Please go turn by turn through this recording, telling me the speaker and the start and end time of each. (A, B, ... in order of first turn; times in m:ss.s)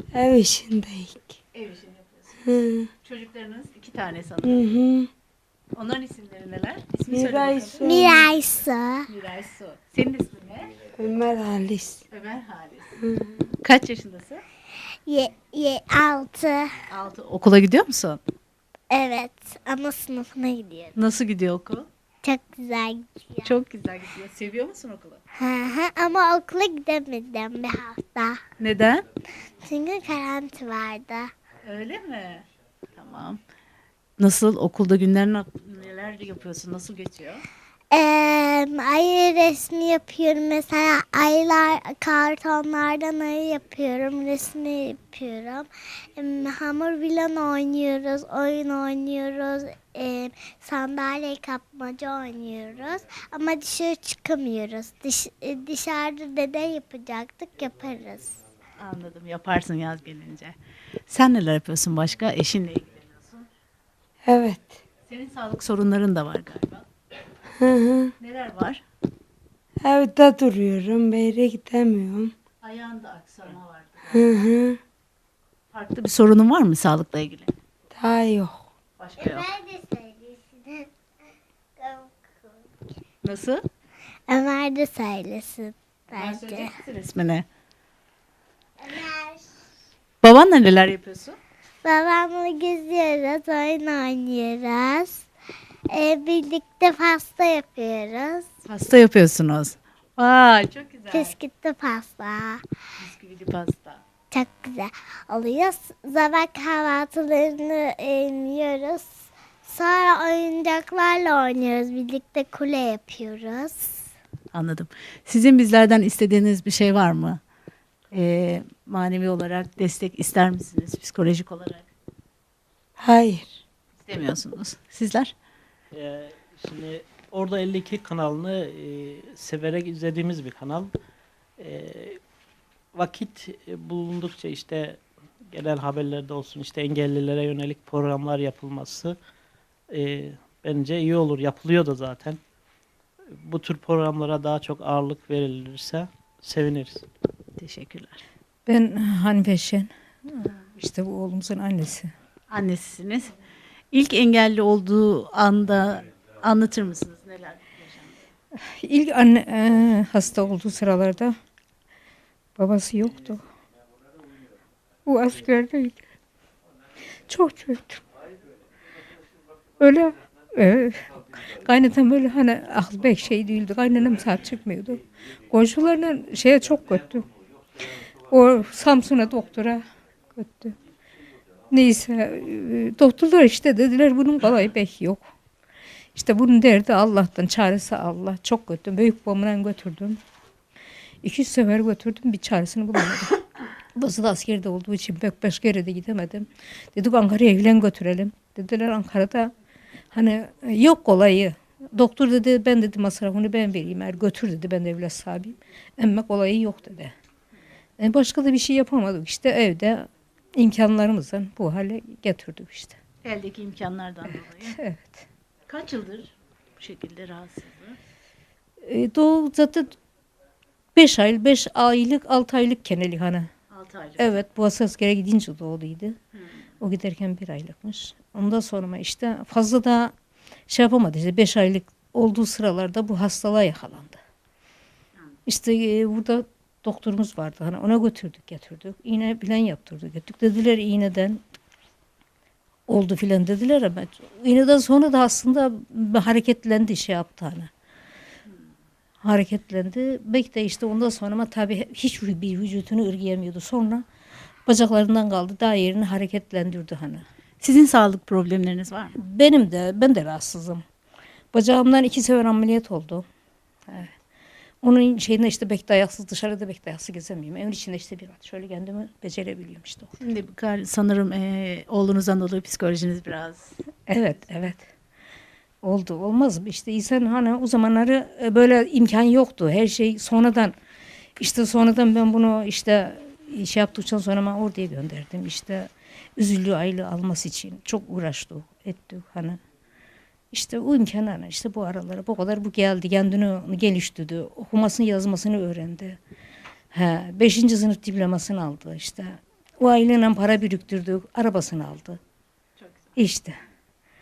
0:00.1-0:01.3 A
0:01.5-0:02.4 B
0:02.4-0:02.9 A
0:03.0-0:04.6 B
0:04.4-0:05.1 A
0:05.7-0:08.2 B
0:07.1-0:08.2 A
0:07.8-0:09.0 C
0:09.1-0:10.7 B
0:10.9-0:12.0 A
0:12.1-0:13.0 B
0:13.0-0:13.3 A
0:13.6-0:14.4 B
0:15.0-0:16.7 C
0:16.9-0:18.2 B
0:18.9-0:20.9 C
0:21.0-0:21.9 B
0:22.2-0:23.6 C
0:23.4-0:25.2 B
0:25.3-0:28.4 C
0:28.6-0:29.0 B
0:29.6-0:31.3 C
0:31.6-0:32.4 B
0:33.0-0:33.4 B
0:34.2-0:37.4 B
0:37.9-0:58.4 C
0:58.8-1:00.5 B
1:01.1-1:03.5 B
1:04.2-1:04.8 A
1:05.1-1:06.8 B
1:07.5-1:08.1 A
1:08.2-1:08.8 B
1:09.8-1:12.3 A
1:12.6-1:14.4 B
1:14.1-1:14.8 A
1:15.7-1:17.5 B
1:17.9-1:18.6 A
1:19.0-1:19.5 B
1:19.2-1:20.9 C
1:21.8-1:22.7 C
1:23.2-1:23.6 B
1:24.3-1:26.7 C
1:26.2-1:27.4 B
1:28.8-1:29.5 C
1:30.2-1:31.4 B
1:31.8-1:35.3 C
1:35.9-1:38.5 C
1:38.6-1:41.3 B
1:41.1-1:42.6 C
1:43.0-1:44.0 B
1:44.3-1:54.0 C
1:54.5-1:57.4 B
1:58.1-2:01.8 B
2:03.0-2:03.4 A
2:04.0-2:05.3 B
2:05.9-2:10.9 D
2:11.6-2:12.2 D
2:12.9-2:19.2 D
2:19.9-2:22.4 D
2:23.4-2:27.0 D
2:27.6-2:28.2 B
2:28.6-2:32.1 E
2:32.5-2:33.3 B
2:33.9-2:38.2 B
2:38.6-2:41.4 E
2:42.6-2:43.4 E
2:45.0-2:46.0 E
2:47.3-2:48.0 E
2:49.8-2:57.2 E
2:58.3-2:59.8 E
3:00.4-3:00.7 E
3:01.7-3:05.2 E
3:06.1-3:10.2 E
3:11.2-3:13.4 E
3:13.9-3:19.5 E
3:20.1-3:27.1 E
3:28.0-3:33.0 E
3:33.2-3:34.8 B
3:34.8-3:35.2 E
3:35.7-3:38.0 B
3:38.8-3:39.9 E
3:40.9-3:43.5 E
3:43.7-3:44.4 B
3:44.2-3:46.2 E
3:46.3-3:46.6 B
3:46.8-3:50.1 E
3:50.7-3:54.2 E
3:55.4-4:01.4 E
4:02.9-4:07.7 E
4:09.2-4:14.0 E
4:14.7-4:17.2 E
4:17.6-4:19.2 B
4:19.2-4:20.8 E
4:21.5-4:23.2 E
4:24.8-4:30.1 E
4:30.2-4:33.7 B
4:34.1-4:34.8 E
4:35.8-4:40.7 E
4:41.4-4:49.6 E
4:50.5-4:56.2 E
4:56.9-5:02.2 E
5:02.8-5:03.1 B
5:03.2-5:03.5 E